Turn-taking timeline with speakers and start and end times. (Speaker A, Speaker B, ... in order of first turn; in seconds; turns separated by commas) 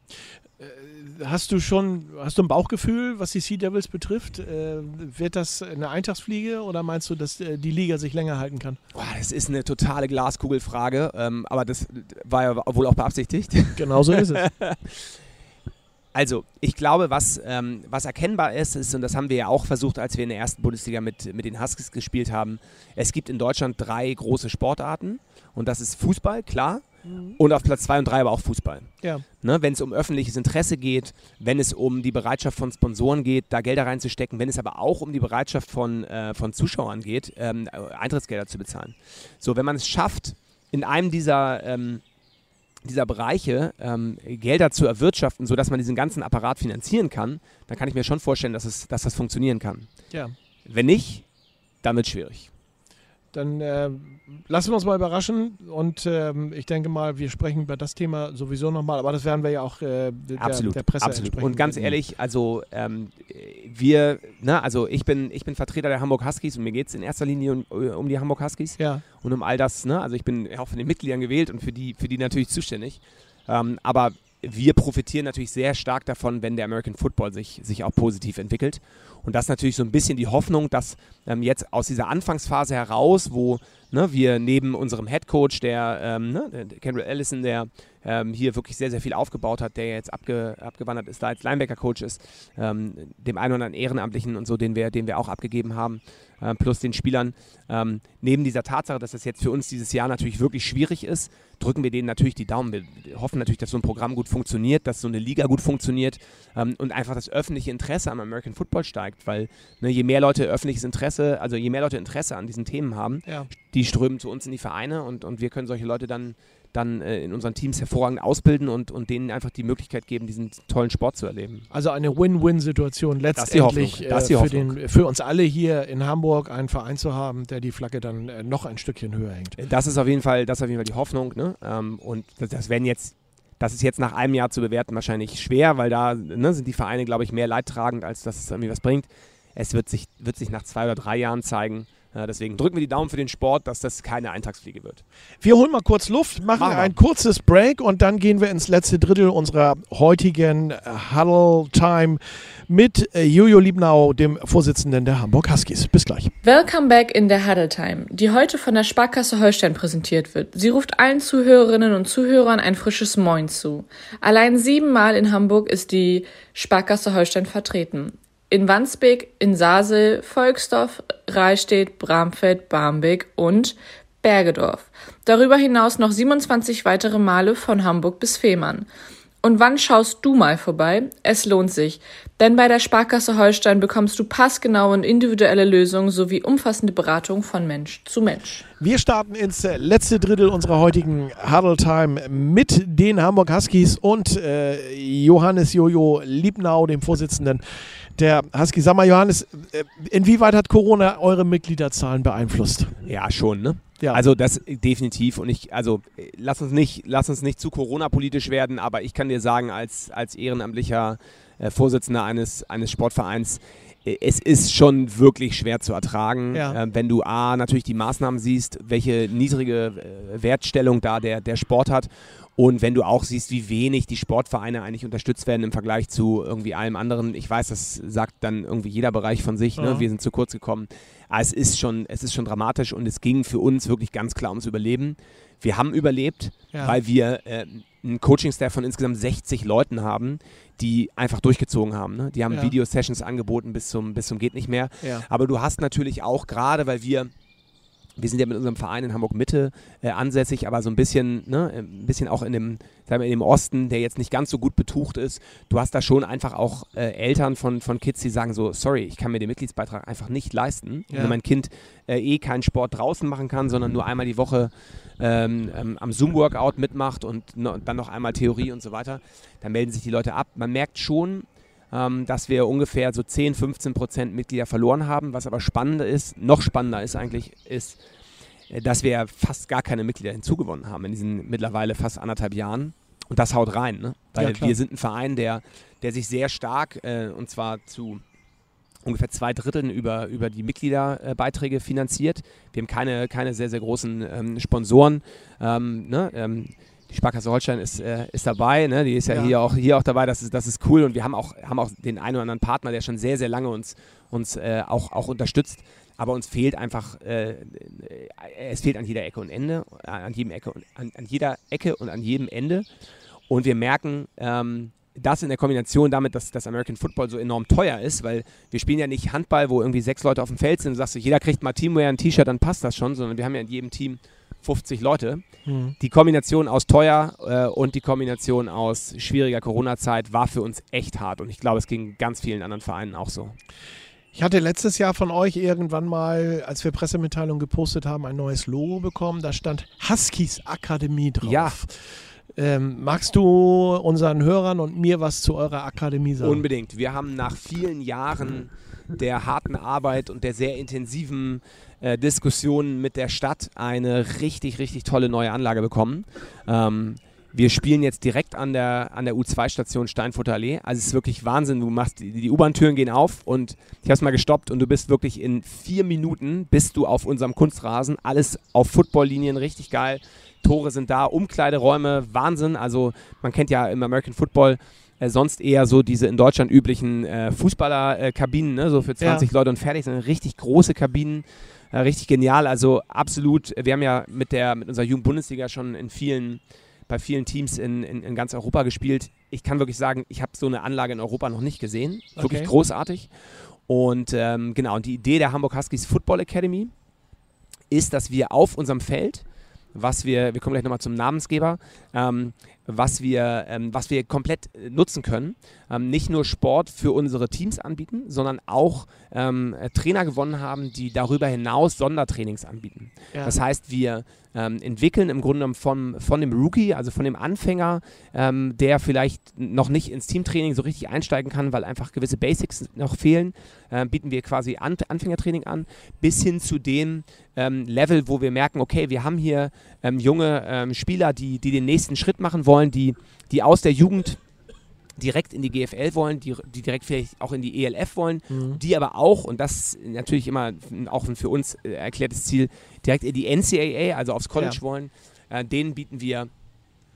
Speaker A: 0.6-8.8, Speaker B: 8.9-15.1, Speaker A: 13.8-14.4, Speaker B: 16.1-26.8, Speaker A: 27.0-27.4, Speaker B: 27.4-42.0, Speaker B: 42.8-49.9, Speaker B: 50.6-51.2, Speaker B: 51.8-52.5, Speaker A: 53.3-62.0, Speaker B: 60.4-121.7, Speaker A: 68.8-69.0, Speaker A: 121.7-129.6, Speaker B: 123.3-124.8, Speaker B: 129.6-145.0, Speaker A: 145.4-156.3, Speaker B: 146.6-146.9, Speaker C: 156.4-178.9, Speaker C: 179.4-188.7, Speaker A: 188.8-202.9, Speaker B: 203.0-247.3, Speaker A: 216.5-216.8, Speaker A: 229.8-230.1, Speaker B: 248.2-278.0, Speaker A: 261.1-261.4, Speaker B: 278.7-288.2, Speaker A: 284.4-284.7, Speaker B: 289.0-312.9, Speaker A: 299.3-299.5, Speaker B: 313.5-325.4, Speaker A: 325.6-325.9, Speaker B: 326.0-333.6, Speaker A: 334.3-346.6, Speaker B: 341.4-341.8, Speaker B: 346.4-393.3, Speaker A: 379.2-379.5, Speaker A: 392.4-392.7, Speaker B: 393.9-396.9, Speaker B: 397.9-434.4, Speaker B: 435.2-446.5, Speaker A: 438.5-438.8